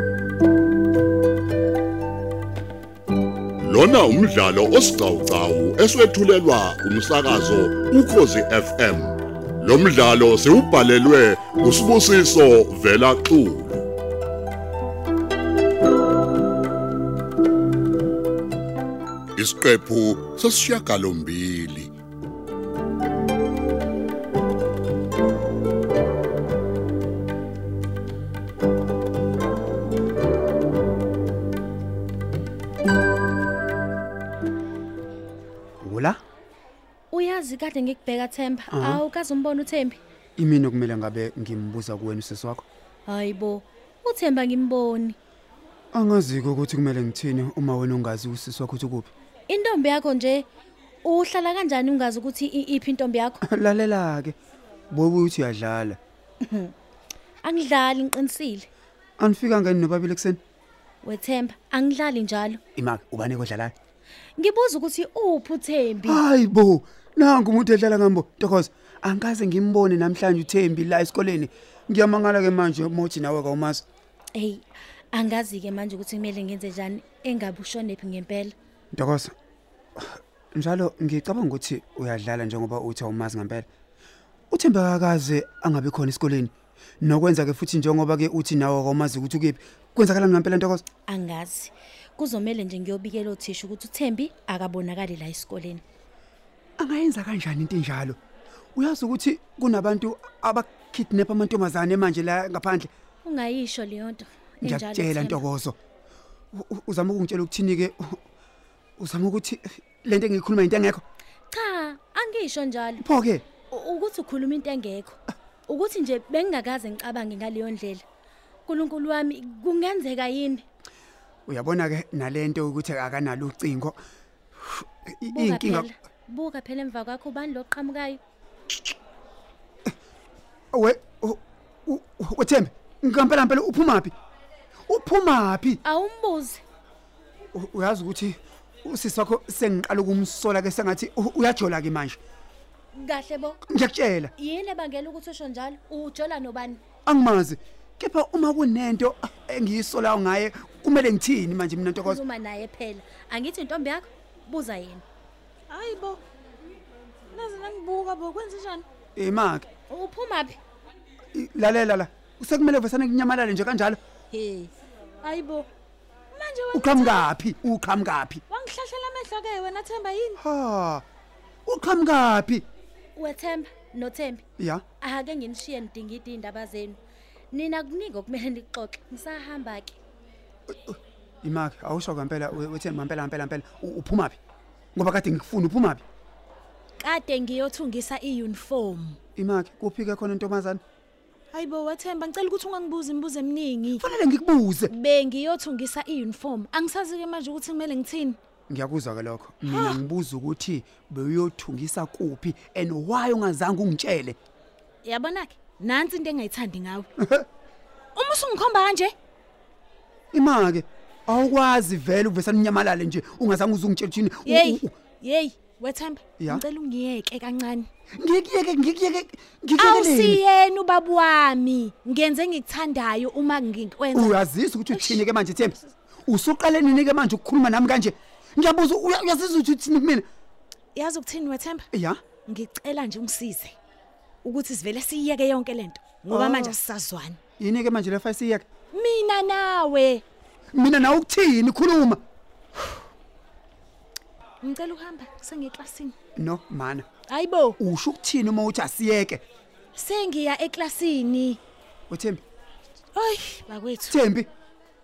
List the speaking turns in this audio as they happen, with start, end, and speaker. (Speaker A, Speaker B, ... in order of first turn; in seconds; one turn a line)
Speaker A: 3.6-13.8
Speaker A: 19.4-21.9
Speaker B: 35.8-36.2
Speaker C: 37.1-40.0
Speaker B: 38.7-39.0
Speaker B: 40.4-42.6
Speaker C: 43.1-45.1
Speaker B: 45.9-49.1
Speaker C: 49.5-50.5
Speaker C: 51.0-53.4
Speaker B: 53.4-54.4
Speaker B: 54.9-56.0
Speaker C: 56.4-56.7
Speaker C: 57.4-58.7
Speaker B: 59.2-60.4
Speaker C: 61.0-62.6
Speaker B: 62.8-63.7
Speaker C: 64.4-66.2
Speaker B: 66.1-73.8
Speaker C: 74.3-78.5
Speaker B: 78.9-79.3
Speaker B: 80.0-83.7
Speaker B: 84.5-90.8
Speaker C: 91.1-95.8
Speaker B: 96.8-98.2
Speaker B: 98.8-102.9
Speaker C: 103.2-105.4
Speaker B: 104.6-105.8
Speaker B: 106.5-108.2
Speaker B: 109.0-111.0
Speaker C: 111.5-113.0
Speaker B: 113.0-113.4
Speaker C: 113.7-118.0
Speaker C: 118.7-120.6
Speaker B: 121.5-124.0
Speaker B: 124.6-125.9
Speaker C: 125.3-128.2
Speaker B: 130.7-134.1
Speaker B: 134.9-135.8
Speaker C: 135.8-136.6
Speaker B: 137.5-142.2
Speaker C: 142.9-143.6
Speaker B: 143.7-144.3
Speaker C: 144.4-146.8
Speaker B: 147.1-152.2
Speaker C: 152.0-155.0
Speaker D: 155.7-156.2
Speaker D: 157.3-158.8
Speaker B: 159.2-159.7
Speaker C: 159.9-160.6
Speaker B: 161.3-164.0
Speaker D: 164.3-164.7
Speaker D: 165.2-165.7
Speaker D: 166.3-167.3
Speaker B: 166.7-168.4
Speaker D: 168.5-170.4
Speaker B: 170.4-171.0
Speaker B: 171.7-172.6
Speaker C: 173.2-174.4
Speaker B: 174.6-174.8
Speaker C: 175.0-177.0
Speaker C: 177.5-180.0
Speaker B: 180.7-184.4
Speaker B: 184.9-186.0
Speaker D: 187.0-189.2
Speaker B: 189.3-190.8
Speaker D: 191.5-194.0
Speaker B: 194.0-194.9
Speaker D: 194.9-198.4
Speaker B: 198.7-204.4
Speaker D: 199.7-200.0
Speaker D: 205.0-207.1
Speaker B: 207.2-207.4
Speaker D: 208.1-209.1
Speaker B: 210.3-214.9
Speaker D: 214.4-217.9
Speaker B: 218.2-220.4
Speaker D: 219.8-224.3
Speaker B: 224.1-230.2
Speaker D: 224.9-225.2
Speaker D: 230.9-233.7
Speaker B: 231.9-232.2
Speaker D: 234.4-237.4
Speaker B: 236.3-236.8
Speaker B: 237.6-238.6
Speaker D: 238.9-240.2
Speaker B: 240.7-242.2
Speaker D: 244.6-246.1
Speaker B: 246.3-247.0
Speaker D: 247.3-247.8
Speaker B: 247.8-249.4
Speaker D: 250.0-251.6
Speaker B: 252.1-252.4
Speaker D: 253.1-254.2
Speaker B: 254.1-254.5